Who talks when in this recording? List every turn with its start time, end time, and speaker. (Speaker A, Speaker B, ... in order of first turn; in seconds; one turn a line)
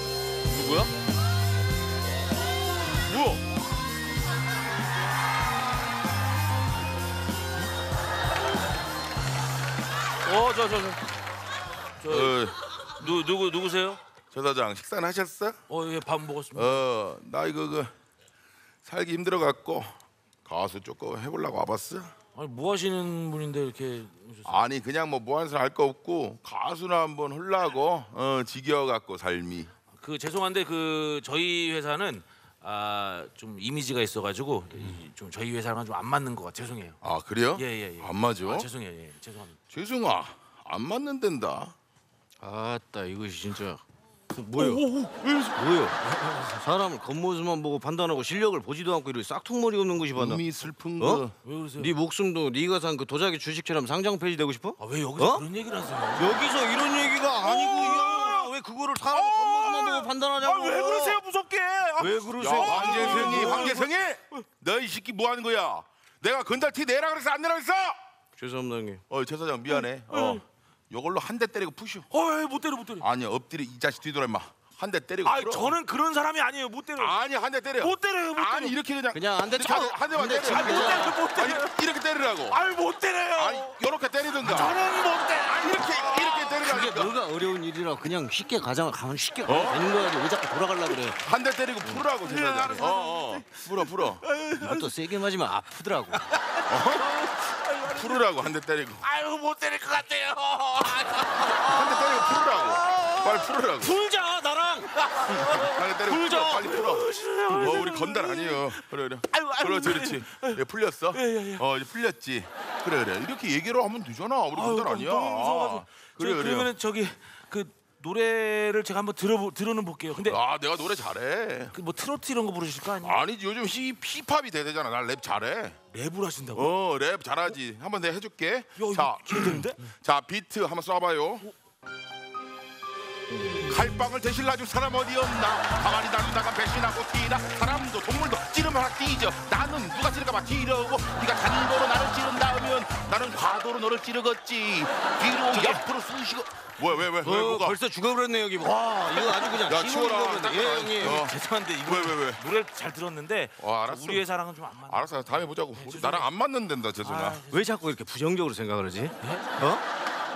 Speaker A: 0.5-0.8
Speaker B: 3.1-3.4
Speaker B: 10.2-11.0
Speaker B: 12.0-12.4
Speaker C: 12.1-12.6
Speaker B: 13.0-14.0
Speaker C: 14.3-15.6
Speaker B: 15.7-16.8
Speaker C: 16.5-17.9
Speaker C: 18.8-22.1
Speaker B: 22.3-24.6
Speaker C: 24.4-29.7
Speaker B: 29.9-37.0
Speaker C: 37.0-38.7
Speaker B: 37.5-39.6
Speaker C: 39.7-41.7
Speaker A: 42.4-43.8
Speaker A: 44.3-44.9
Speaker C: 44.6-45.6
Speaker A: 45.5-50.4
Speaker B: 46.2-46.5
Speaker C: 50.1-51.3
Speaker A: 51.0-51.2
Speaker B: 51.4-51.9
Speaker A: 51.8-55.5
Speaker B: 54.8-56.5
Speaker A: 56.1-61.2
Speaker C: 57.4-58.5
Speaker B: 57.5-58.4
Speaker B: 59.1-63.9
Speaker A: 62.0-63.9
Speaker C: 62.4-68.0
Speaker A: 68.4-69.0
Speaker C: 69.1-72.1
Speaker B: 70.1-70.4
Speaker B: 72.1-73.1
Speaker C: 73.0-75.7
Speaker B: 75.2-77.2
Speaker C: 77.0-82.6
Speaker B: 77.8-78.8
Speaker A: 79.1-81.2
Speaker B: 80.5-81.7
Speaker B: 82.5-83.7
Speaker C: 83.3-84.8
Speaker B: 84.4-85.9
Speaker A: 84.5-85.3
Speaker C: 85.3-87.1
Speaker A: 85.8-91.2
Speaker C: 89.5-89.8
Speaker C: 91.2-94.2
Speaker A: 91.8-93.3
Speaker A: 94.3-96.2
Speaker C: 96.7-97.0
Speaker C: 97.8-99.0
Speaker B: 99.0-101.7
Speaker A: 101.2-108.2
Speaker C: 101.6-104.0
Speaker C: 105.6-116.7
Speaker B: 107.2-107.9
Speaker B: 109.8-110.2
Speaker B: 111.1-111.6
Speaker B: 114.5-120.4
Speaker C: 120.2-121.7
Speaker B: 121.7-123.2
Speaker C: 123.0-125.8
Speaker B: 125.9-126.8
Speaker C: 126.5-131.5
Speaker B: 128.8-129.8
Speaker C: 133.6-147.8
Speaker A: 147.2-151.2
Speaker C: 149.3-152.4
Speaker B: 151.0-156.3
Speaker C: 153.6-154.2
Speaker C: 154.9-157.4
Speaker B: 157.0-157.7
Speaker A: 157.5-159.8
Speaker B: 159.2-159.4